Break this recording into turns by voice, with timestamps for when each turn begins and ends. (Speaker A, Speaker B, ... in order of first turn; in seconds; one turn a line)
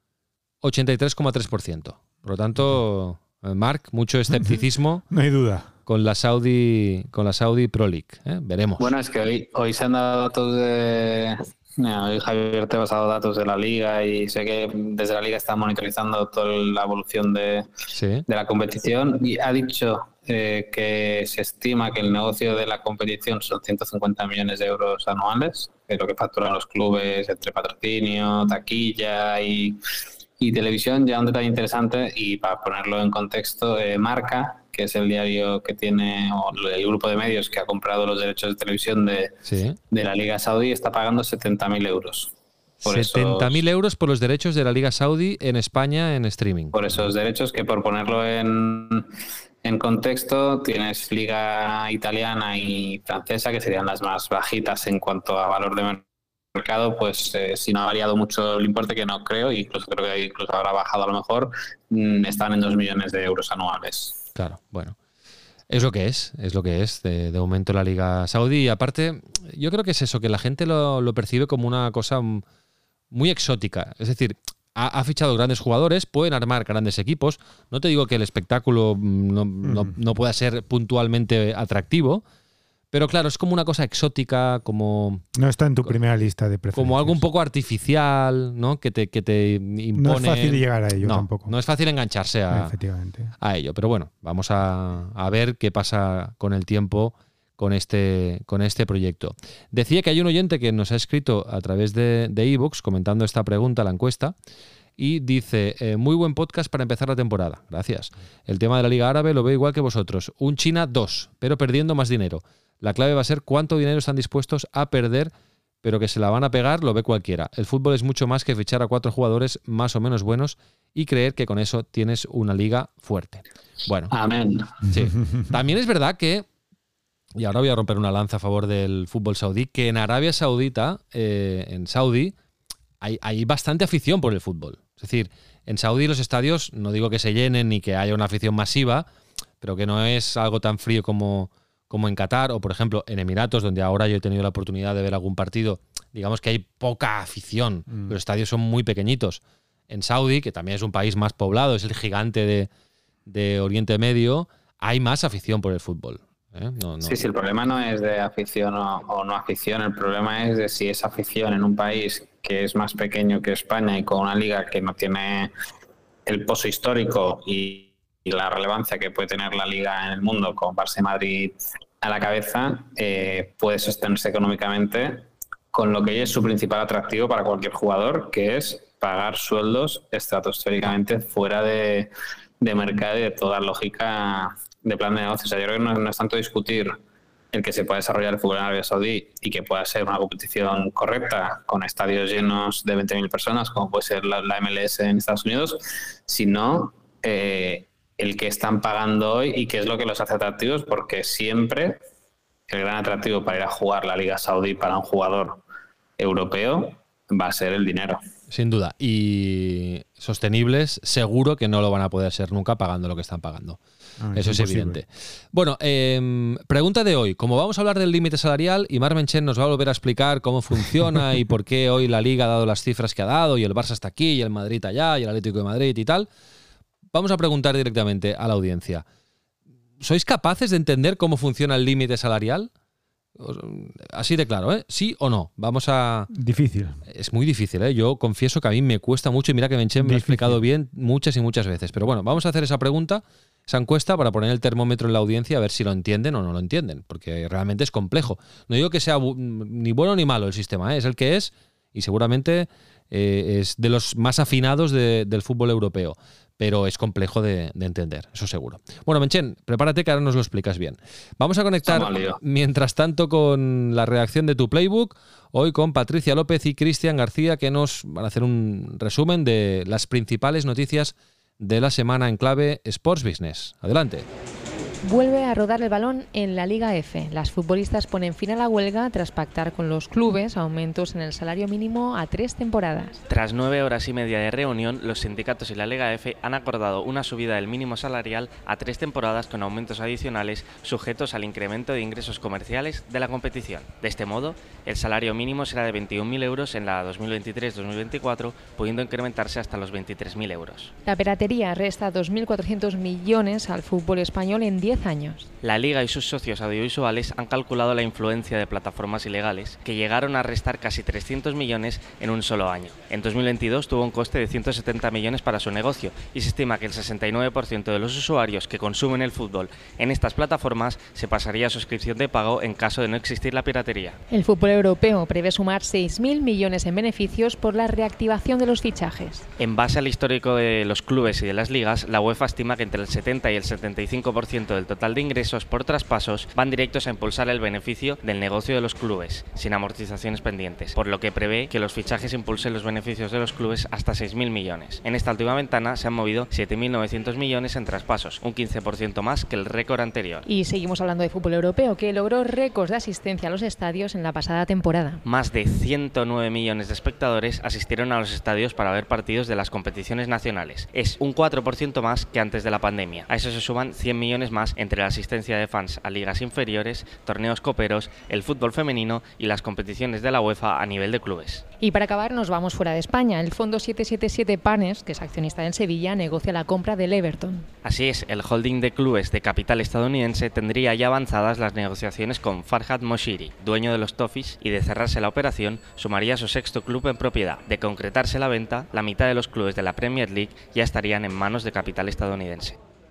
Speaker A: 0.6-5.0
Speaker B: 4.3-4.6
Speaker B: 5.1-5.7
Speaker A: 5.9-8.9
Speaker C: 8.8-17.7
Speaker A: 17.9-18.2
Speaker C: 18.3-29.8
Speaker C: 30.4-39.4
Speaker A: 39.5-39.8
Speaker C: 39.9-42.3
Speaker C: 42.8-43.6
Speaker A: 42.8-46.8
Speaker C: 46.7-49.1
Speaker C: 49.6-56.0
Speaker C: 56.5-64.2
Speaker A: 64.4-65.0
Speaker A: 65.7-72.4
Speaker A: 73.1-82.2
Speaker B: 79.6-79.9
Speaker A: 82.9-85.2
Speaker B: 85.4-87.2
Speaker A: 86.8-92.7
Speaker B: 90.0-91.5
Speaker B: 92.5-93.3
Speaker A: 93.4-104.3
Speaker A: 105.0-115.3
Speaker A: 115.8-124.1
Speaker C: 124.1-124.8
Speaker A: 124.9-126.5
Speaker A: 127.4-132.3
Speaker A: 133.0-139.1
Speaker A: 139.6-152.7
Speaker A: 153.3-157.2
Speaker C: 157.0-165.5
Speaker C: 166.3-187.0
Speaker C: 187.5-202.0
Speaker C: 202.7-205.6
Speaker C: 206.2-208.2
Speaker A: 208.5-213.8
Speaker B: 214.2-215.0
Speaker A: 214.3-226.3
Speaker A: 227.1-229.0
Speaker A: 230.0-232.7
Speaker A: 233.4-236.3
Speaker B: 236.3-237.0
Speaker A: 237.1-274.3
Speaker B: 240.0-240.6
Speaker C: 261.8-262.4
Speaker D: 275.0-283.2
Speaker E: 283.3-300.9
Speaker D: 301.1-305.5
Speaker E: 305.6-324.2
Speaker D: 324.3-329.5
Speaker E: 329.6-350.4
Speaker D: 350.4-355.2
Speaker E: 355.2-371.6
Speaker D: 371.8-377.7
Speaker E: 377.8-392.8